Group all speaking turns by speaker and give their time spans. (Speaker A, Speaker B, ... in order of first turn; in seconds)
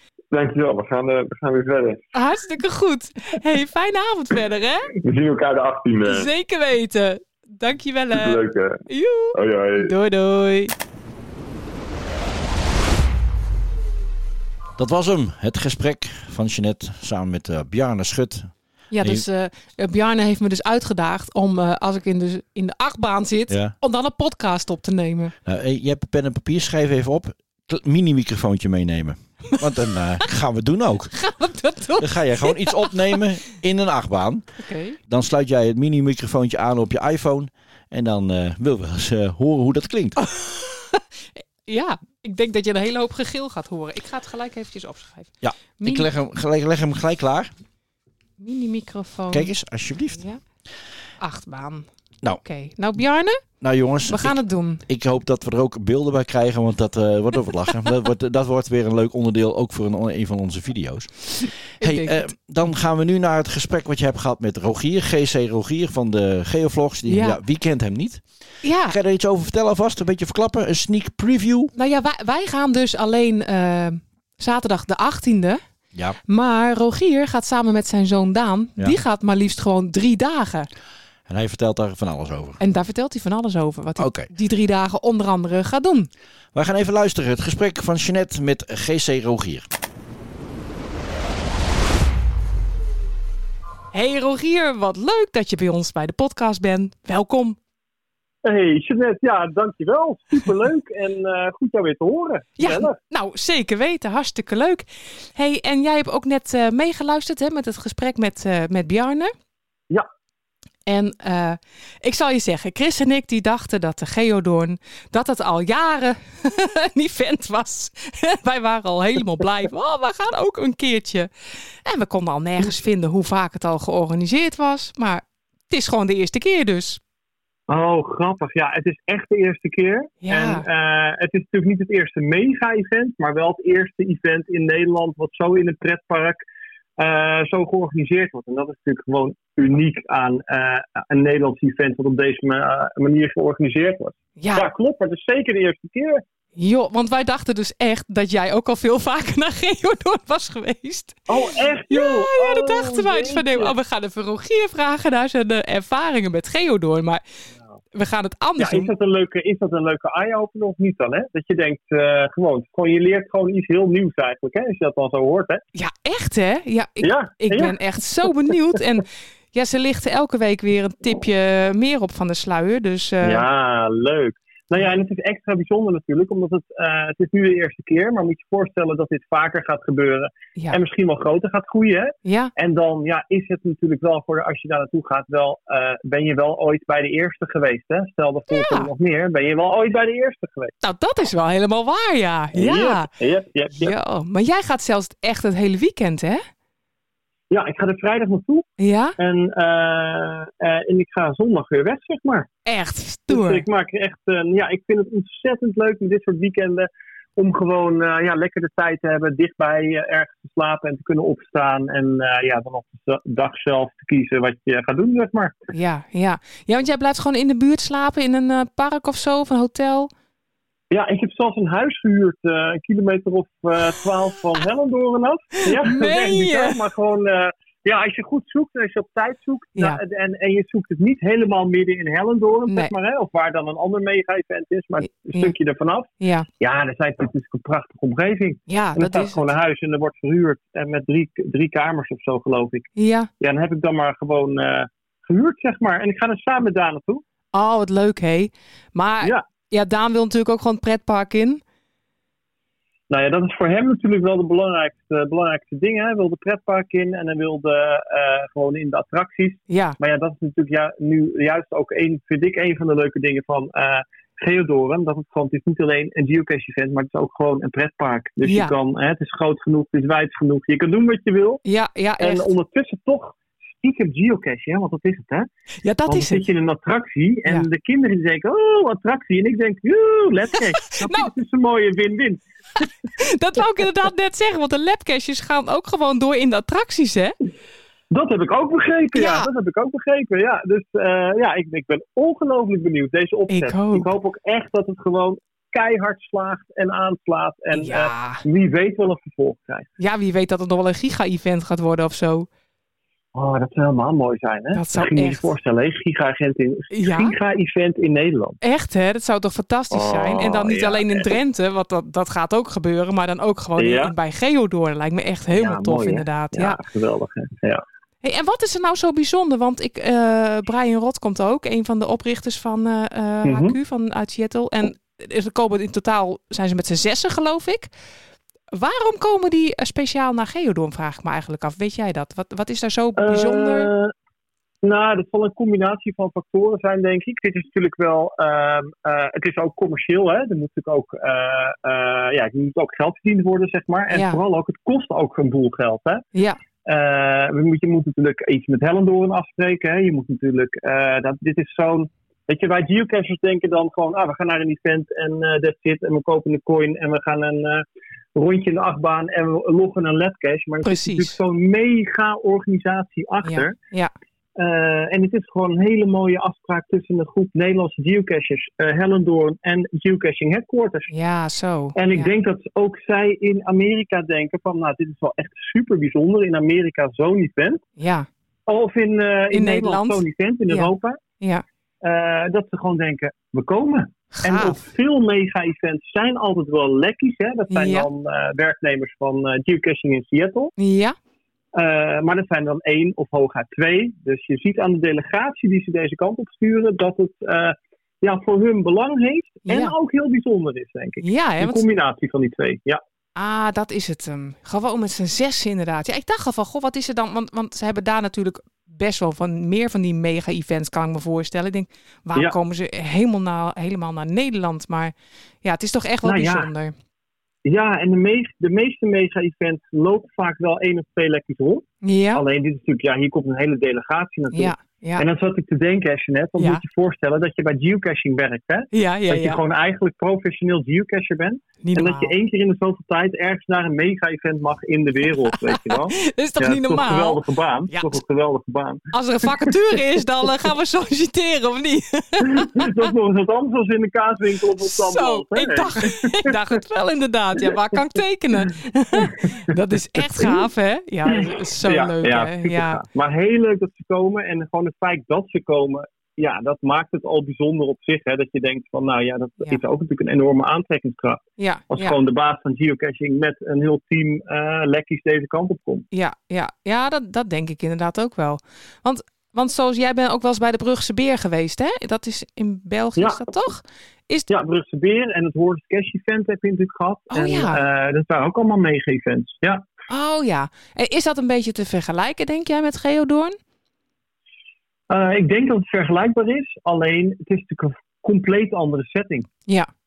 Speaker A: 0.3-2.1, 5.0-6.3, 8.1-8.8, 9.3-9.9
Speaker B: 2.1-4.9, 6.0-10.7, 18.9-25.3, 31.1-33.2, 34.6-35.0, 40.2-41.0, 41.7-46.1, 48.4-49.5, 50.1-50.4, 51.2-51.9, 52.4-53.4, 54.1-54.8, 61.8-62.3, 67.1-67.4, 68.6-69.0, 71.8-75.6, 76.3-80.7, 82.6-86.1, 93.9-97.6, 102.6-109.3, 110.9-127.0, 130.2-130.7, 144.4-144.7, 146.6-151.3, 151.9-157.2, 157.9-158.9, 165.8-173.4, 182.2-182.5, 188.5-188.9, 190.8-193.1, 193.8-196.4, 198.8-199.2, 202.7-203.7, 215.7-220.1, 225.7-226.8, 232.7-232.9, 235.1-235.6, 236.2-236.5, 238.7-239.5, 243.0-243.3, 247.5-251.6, 259.7-260.0, 268.4-268.7, 271.6-272.5, 275.8-276.4, 280.6-281.3, 283.2-287.4, 289.1-289.5, 293.5-294.1, 297.7-298.4, 300.0-302.5, 304.7-305.5, 306.9-307.3, 308.6-316.8, 318.2-327.9, 328.7-333.9, 344.1-344.4, 360.8-361.4, 363.4-364.1, 371.1-372.3, 378.0-378.3, 379.5-381.6, 384.4-384.8, 387.7-388.1, 390.8-391.2, 399.7-399.9, 401.2-401.8, 403.4-416.9, 422.0-422.4, 424.5-425.2, 428.9-429.6, 431.8-432.3, 435.3-438.2, 439.1-442.9, 444.8-453.0, 461.6-462.2, 466.1-474.5, 477.3-477.8, 480.1-483.6
Speaker C: 14.8-19.2, 23.5-23.8, 25.4-31.2, 32.0-34.5, 35.1-40.2, 45.4-47.5, 49.3-50.2, 53.6-68.2, 68.9-71.7, 81.3-82.6, 84.0-84.3, 86.5-89.7
Speaker D: 98.4-103.0, 127.7-136.4, 137.0-146.2, 151.3-153.7, 158.6-165.6, 167.0-167.8, 173.2-190.7, 192.5-193.9, 197.5-202.5, 203.3-215.6, 220.9-247.2, 253.1-271.6, 272.2-275.5, 276.1-282.9, 288.1-299.9, 303.4-308.6, 309.9-311.3, 313.8-314.1, 315.5-317.8, 323.4-323.8, 333.2-334.1, 334.8-346.2, 346.9-363.8, 364.6-371.1, 371.9-377.8, 378.7-381.2, 382.0-390.7, 391.7-403.0, 416.2-416.7, 417.6-439.5, 442.4-446.5, 449.2-449.6, 450.4-450.6, 451.3-466.1, 473.2-473.4, 474.5-479.9, 485.1-489.5